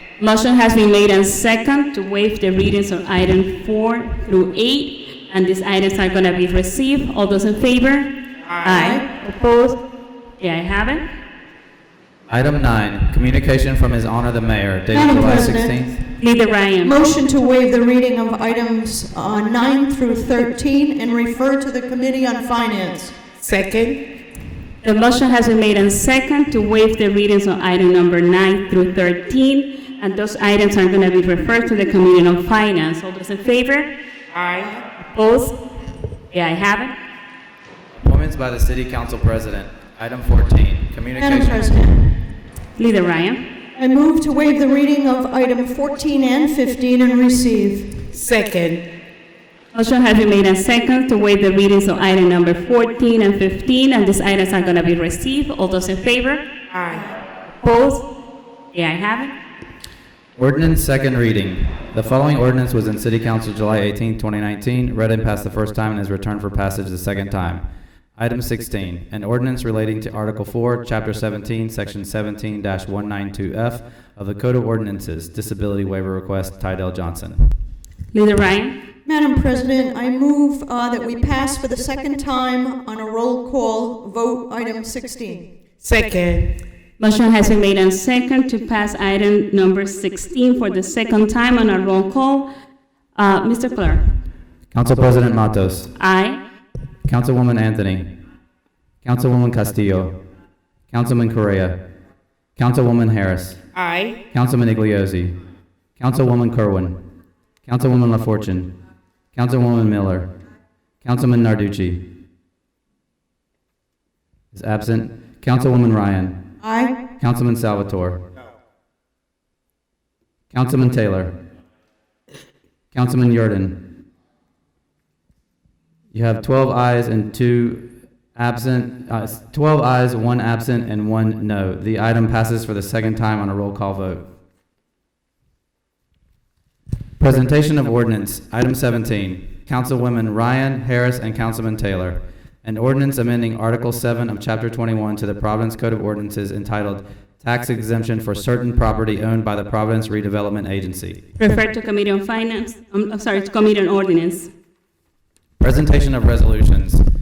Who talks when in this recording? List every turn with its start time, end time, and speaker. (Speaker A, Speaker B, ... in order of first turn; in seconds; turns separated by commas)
Speaker A: 0.2-9.8, Speaker B: 8.4-8.8, Speaker C: 8.6-9.0, Speaker A: 10.4-11.1, Speaker D: 12.3-16.0, Speaker C: 14.9-15.7, Speaker A: 16.2-17.0, Speaker C: 16.8-23.2, Speaker B: 23.3-24.0, Speaker A: 24.8-33.9, Speaker B: 34.3-34.7, Speaker A: 35.0-35.5, Speaker A: 36.3-36.9, Speaker D: 38.0-41.8, Speaker C: 41.1-42.2, Speaker A: 42.8-43.4, Speaker C: 43.8-48.0, Speaker B: 48.1-48.8, Speaker A: 49.7-56.4, Speaker B: 56.7-57.0, Speaker A: 57.6-58.0, Speaker A: 58.7-59.3, Speaker D: 60.4-67.6, Speaker D: 68.2-77.4, Speaker A: 78.1-78.7, Speaker C: 79.0-85.5, Speaker B: 85.8-86.5, Speaker A: 87.0-92.5, Speaker A: 93.1-94.0, Speaker D: 94.7-95.9, Speaker A: 96.0-96.4, Speaker D: 97.0-98.0, Speaker D: 99.0-100.1, Speaker D: 100.9-101.8, Speaker D: 102.5-103.6, Speaker B: 103.7-104.2, Speaker D: 104.3-105.3, Speaker D: 106.0-107.0, Speaker D: 107.6-108.7, Speaker D: 109.3-110.3, Speaker D: 111.0-112.0, Speaker D: 114.5-116.4, Speaker C: 116.6-117.0, Speaker D: 117.2-118.2, Speaker D: 120.5-121.3, Speaker D: 122.9-123.8, Speaker D: 126.1-134.2, Speaker D: 137.2-151.2, Speaker A: 151.4-154.5, Speaker D: 155.6-157.0